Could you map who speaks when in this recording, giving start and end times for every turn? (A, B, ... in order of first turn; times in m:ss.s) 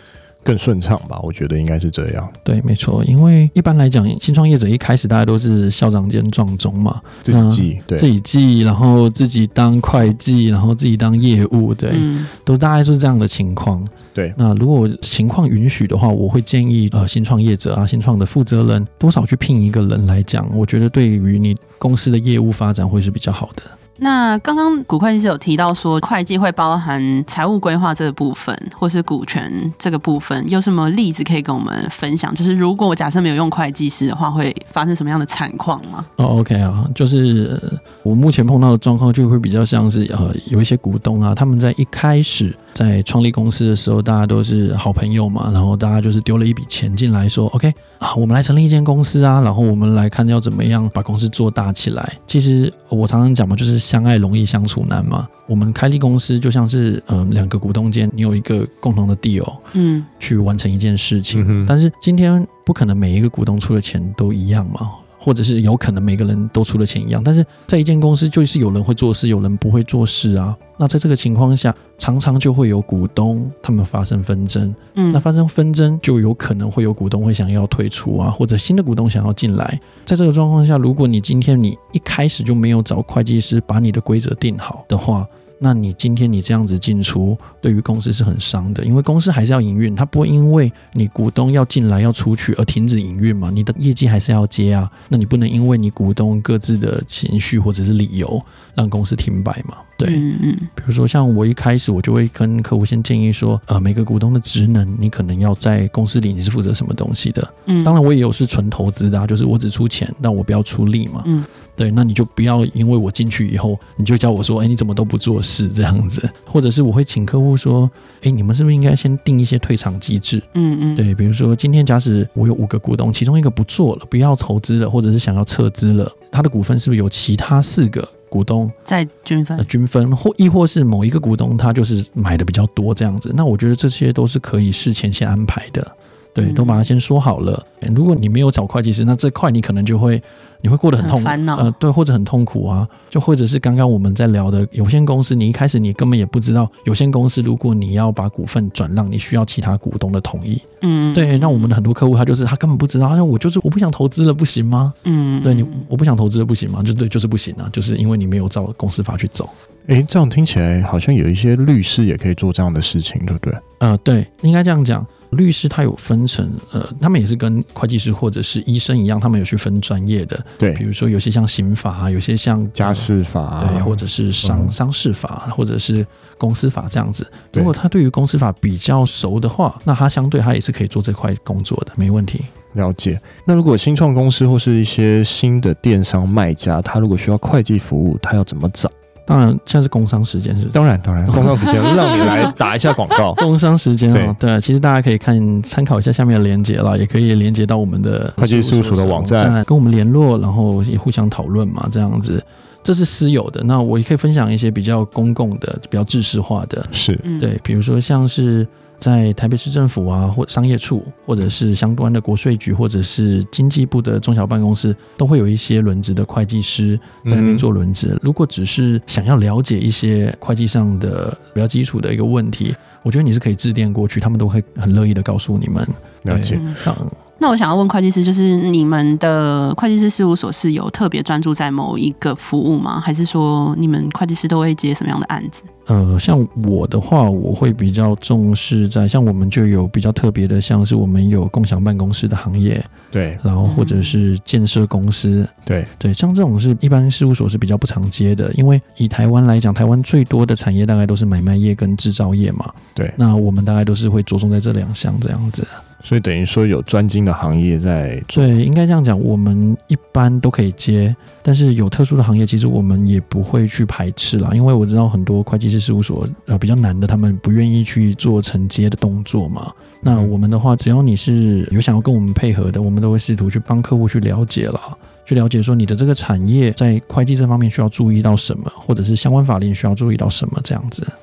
0:00.4-0:02.3 A
0:02.4-0:23.7 B
0:07.2-0:08.1 A
0:11.9-0:12.3 C
0:24.0-0:36.1 C
0:36.2-0:59.7 B
0:59.7-1:00.1 C
1:00.2-1:40.2 B
1:01.3-1:01.7 A
1:15.0-1:15.2 C
1:40.0-1:40.7 C
1:40.8-2:08.7 B
1:47.6-1:48.0 C
2:00.5-2:01.0 C
2:08.8-2:09.7 C
2:09.6-2:39.5 B
2:16.4-2:16.8 C
2:21.0-2:21.7 C
2:30.8-2:31.7 C
2:35.0-2:35.8 C
2:39.9-2:43.6 A
2:43.8-3:02.5 B
2:52.8-2:54.7 A
3:02.7-3:08.9 A
3:09.3-3:12.3 B
3:10.7-3:13.4 A
3:13.4-3:47.2 B
3:18.4-3:19.6 A
3:26.9-3:27.2 A
3:27.2-3:27.5 C
3:37.2-3:37.6 A
3:46.2-3:46.6 A
3:47.4-3:55.7 C
3:55.9-4:15.8 B
4:03.1-4:03.4 A
4:03.6-4:04.1 C
4:05.6-4:05.9 A
4:16.0-4:18.6 A
4:18.3-4:41.1 B